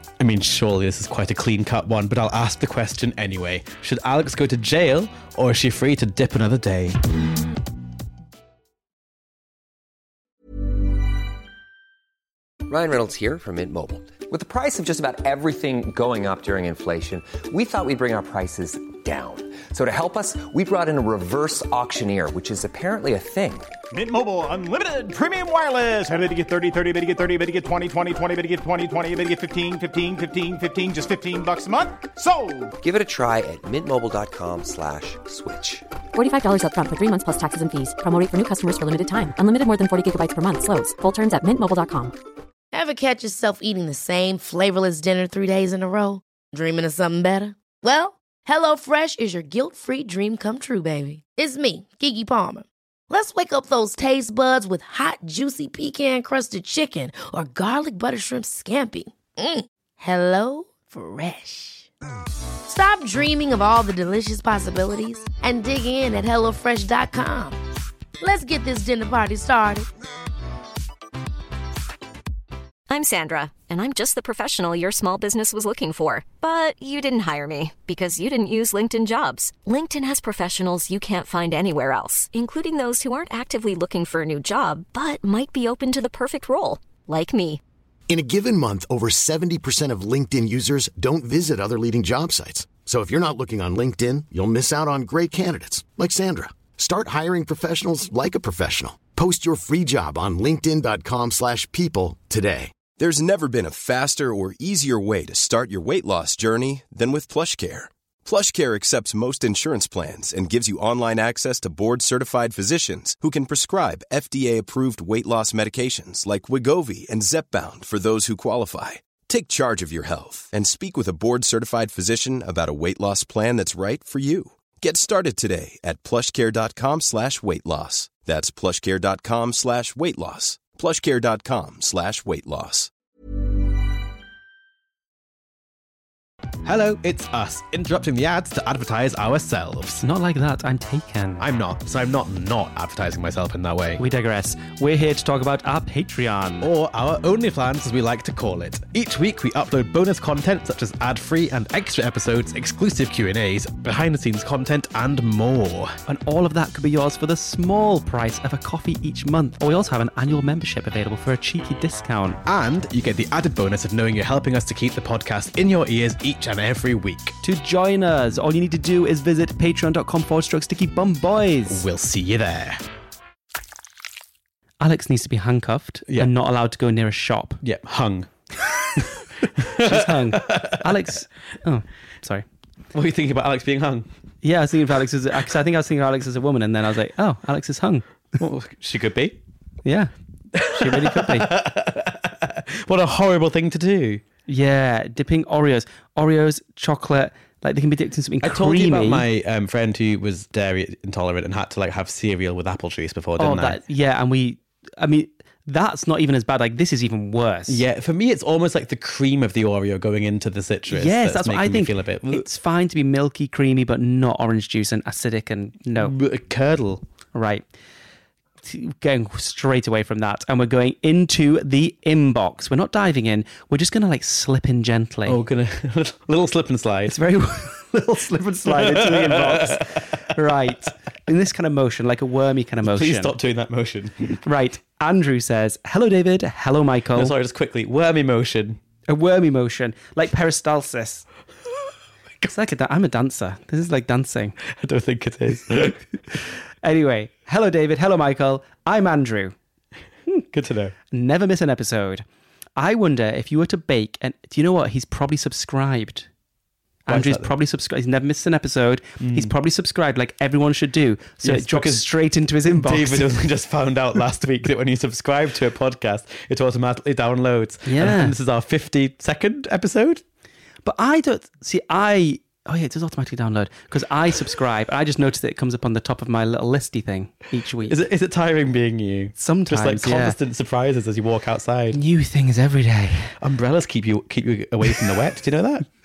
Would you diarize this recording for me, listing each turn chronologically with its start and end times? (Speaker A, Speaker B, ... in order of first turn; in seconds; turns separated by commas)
Speaker A: 0.2-7.0, Speaker B: 12.7-23.7, Speaker C: 23.9-32.7, Speaker B: 32.8-35.9, Speaker D: 36.1-42.1, Speaker E: 42.7-61.9, Speaker E: 62.7-67.6, Speaker E: 68.2-69.9, Speaker F: 72.9-87.6, Speaker G: 88.1-102.8, Speaker H: 103.0-132.9, Speaker A: 136.7-140.1, Speaker I: 140.0-141.5, Speaker A: 141.4-144.0, Speaker I: 144.0-146.7, Speaker A: 146.6-156.0, Speaker I: 156.1-162.4, Speaker A: 162.4-167.4, Speaker I: 167.4-171.9, Speaker A: 171.7-172.8, Speaker I: 174.8-177.6, Speaker A: 177.6-178.3, Speaker A: 179.0-181.0, Speaker I: 179.7-182.4, Speaker A: 182.9-184.1, Speaker I: 184.4-188.1, Speaker A: 188.4-189.4, Speaker I: 189.8-190.1, Speaker A: 190.5-194.2, Speaker I: 190.7-191.5, Speaker I: 194.5-199.3, Speaker A: 198.4-203.8, Speaker I: 203.4-207.8, Speaker A: 207.7-212.5, Speaker I: 210.9-216.2, Speaker A: 216.0-217.0, Speaker I: 217.3-217.7, Speaker I: 218.6-225.4, Speaker A: 225.3-227.2, Speaker I: 227.1-233.3, Speaker A: 228.6-230.4, Speaker A: 232.8-234.4, Speaker I: 234.4-237.3, Speaker A: 237.2-238.8, Speaker I: 239.1-241.3, Speaker I: 242.4-244.6, Speaker A: 244.6-246.0, Speaker I: 246.8-249.6, Speaker A: 250.5-250.9, Speaker I: 251.1-252.2, Speaker I: 252.8-256.3, Speaker I: 257.1-263.3, Speaker A: 257.1-257.5, Speaker A: 259.2-259.5, Speaker A: 261.4-262.1, Speaker A: 262.7-270.2, Speaker I: 267.9-268.4, Speaker I: 270.9-278.0, Speaker A: 277.9-282.0, Speaker I: 279.4-280.4, Speaker I: 281.9-283.4, Speaker A: 283.4-285.9